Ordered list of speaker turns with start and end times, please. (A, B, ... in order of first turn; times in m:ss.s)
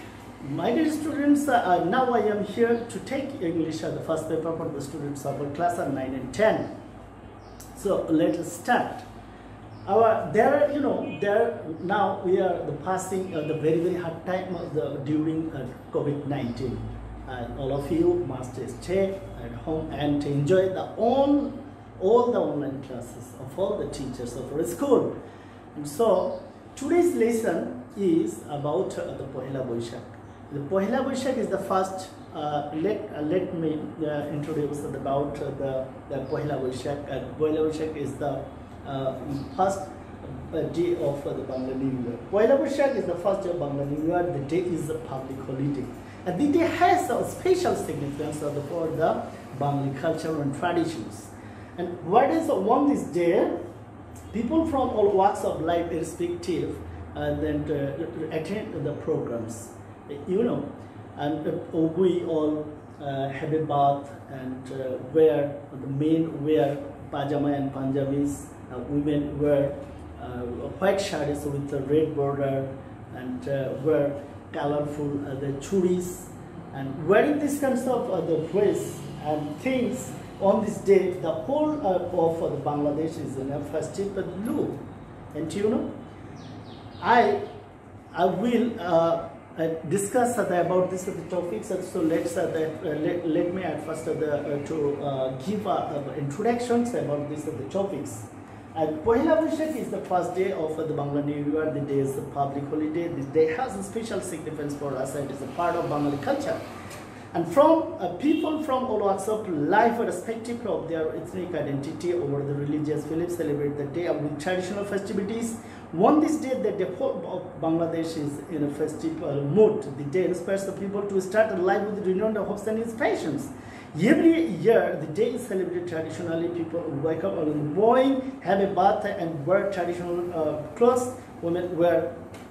0:00.4-0:06.7 A
0:07.7-0:09.0 A
0:09.8-0:25.1 A
0:25.7-0:53.6 A
0:54.3-1:24.8 A
1:25.3-1:25.9 A
1:27.0-1:27.4 A
1:28.1-1:46.6 A
1:47.3-2:12.2 A